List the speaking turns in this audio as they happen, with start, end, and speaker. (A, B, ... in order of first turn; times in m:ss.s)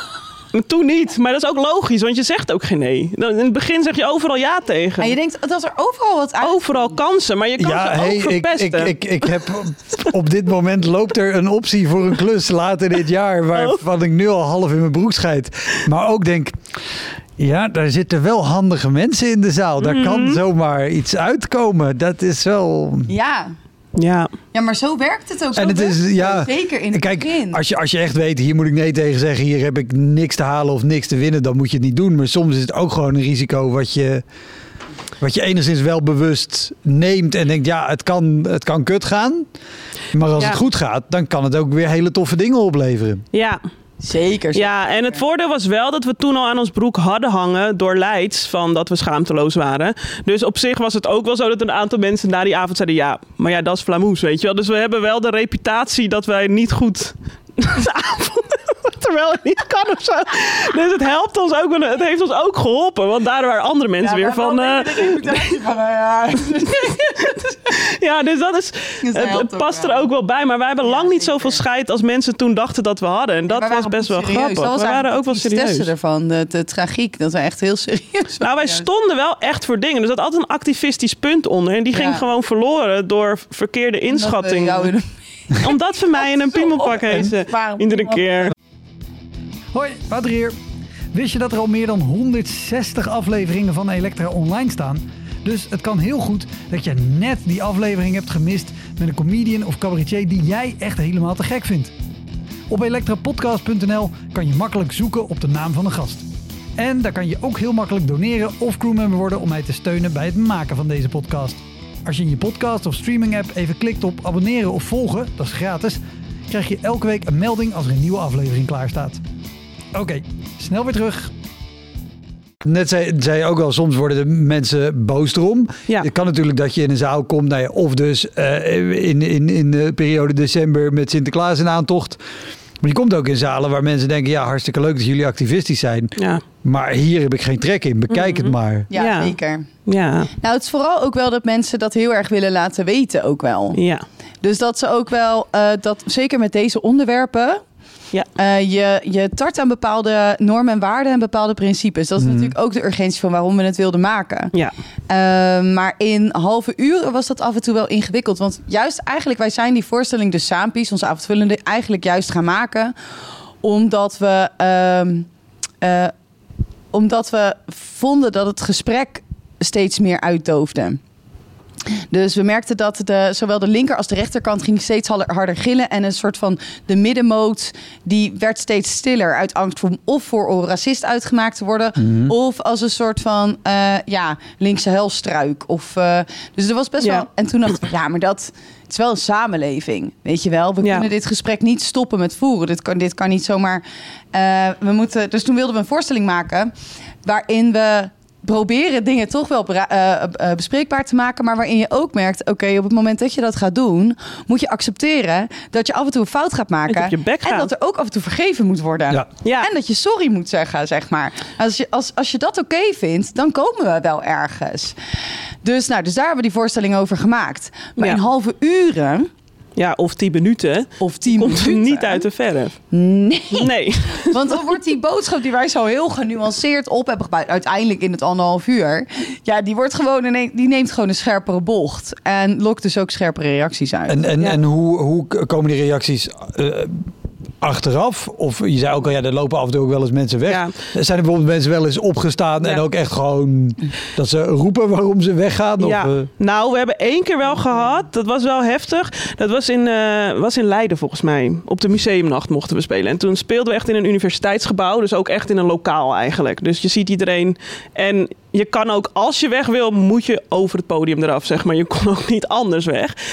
0:00.5-0:05.2 A
0:05.0-0:07.0 B
0:06.4-0:09.0 A
0:07.6-0:16.6 C
0:13.6-0:13.8 A
0:17.4-0:23.1 C
0:19.8-0:20.4 A
0:23.1-0:23.5 B
0:24.0-0:24.3 A
0:24.5-0:27.6 B
0:25.6-0:34.2 C
0:35.2-0:39.5 C
0:40.1-0:43.2 C
0:43.3-0:43.6 A
0:44.0-0:45.2 B
0:44.5-1:05.4 A
1:04.0-1:07.7 B
1:07.2-1:15.9 A
1:09.0-1:10.1 B
1:10.8-1:11.6 B
1:13.5-1:18.9 B
1:18.4-1:24.9 A
1:21.9-1:22.2 B
1:24.1-1:28.2 B
1:25.6-1:28.5 A
1:29.7-1:30.6 C
1:31.1-1:41.9 C
1:42.7-1:46.2 C
1:46.8-1:59.2 C
1:59.9-2:01.3 C
2:02.6-2:12.2 C
2:12.8-2:18.9 C
2:16.2-2:16.4 A
2:18.1-2:20.3 A
2:18.9-2:19.7 B
2:20.4-2:23.8 B
2:23.8-2:24.0 A
2:24.4-2:27.6 B
2:28.4-2:34.5 B
2:32.2-2:32.5 C
2:35.1-2:42.9 B
2:43.6-2:45.3 B
2:45.8-2:46.1 B
2:46.9-2:51.0 B
2:51.9-3:16.7 B
3:02.0-3:02.3 C
3:07.0-3:07.3 A
3:17.2-3:35.0 B
3:26.9-3:27.7 A
3:29.4-3:29.7 A
3:35.6-3:39.3 B
3:39.8-3:42.8 A
3:41.0-3:42.3 B
3:42.9-3:54.6 B
3:43.5-3:44.6 A
3:54.1-3:57.1 C
3:57.6-4:06.3 C
4:00.5-4:00.7 A
4:05.8-4:23.2 A